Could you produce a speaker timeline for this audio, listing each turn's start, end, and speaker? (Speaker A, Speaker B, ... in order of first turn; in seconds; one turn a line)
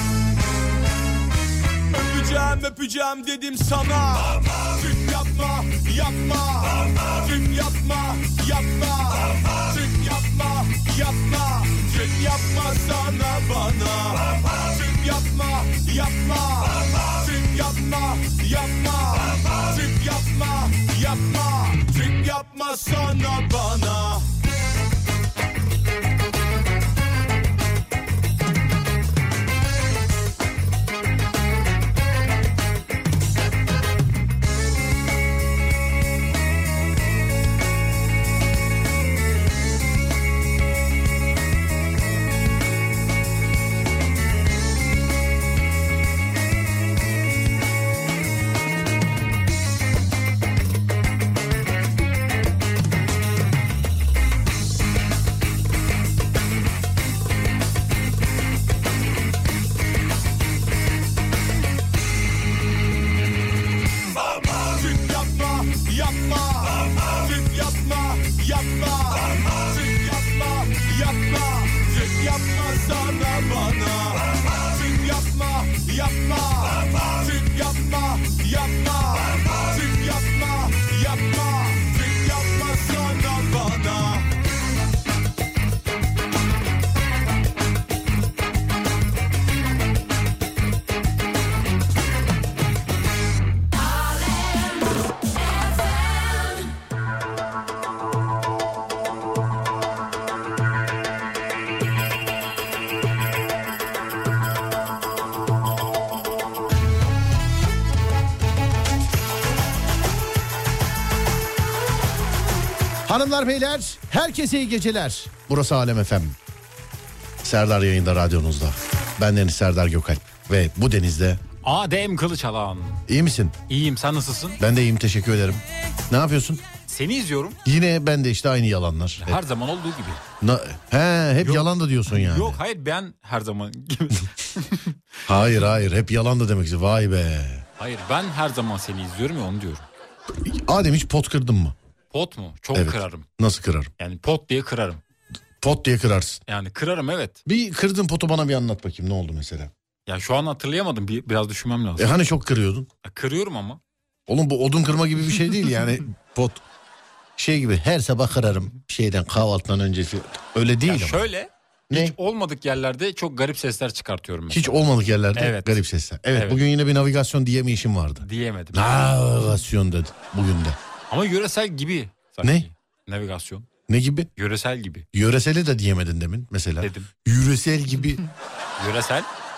Speaker A: 1.9-24.3
Speaker A: 64.3-84.3
Speaker B: 113.0-116.4
Speaker B: 117.4-121.4
Speaker C: 121.6-123.0
Speaker B: 123.1-123.6
Speaker C: 123.7-124.6
Speaker B: 124.6-126.6
Speaker C: 126.9-127.6
Speaker B: 127.6-129.4
Speaker C: 129.2-130.2
Speaker B: 130.4-132.6
Speaker C: 131.4-135.0
Speaker B: 135.2-137.6
Speaker C: 137.8-139.8
Speaker B: 140.4-141.8
Speaker C: 142.1-143.3
Speaker B: 142.7-143.9
Speaker C: 144.0-145.0
Speaker B: 145.6-146.4
Speaker C: 146.5-147.4
Speaker B: 147.4-149.7
Speaker C: 150.1-152.2
Speaker B: 152.0-152.9
Speaker C: 153.0-153.8
Speaker B: 154.3-156.6
Speaker B: 157.4-161.3
Speaker C: 160.8-164.8
Speaker B: 161.9-162.1
Speaker B: 164.5-170.8
Speaker C: 165.3-165.8
Speaker C: 166.3-166.6
Speaker C: 168.2-169.0
Speaker C: 171.1-173.7
Speaker B: 172.4-172.7
Speaker B: 173.9-174.3
Speaker C: 174.4-175.1
Speaker B: 175.1-178.2
Speaker C: 176.8-177.1
Speaker C: 178.8-179.3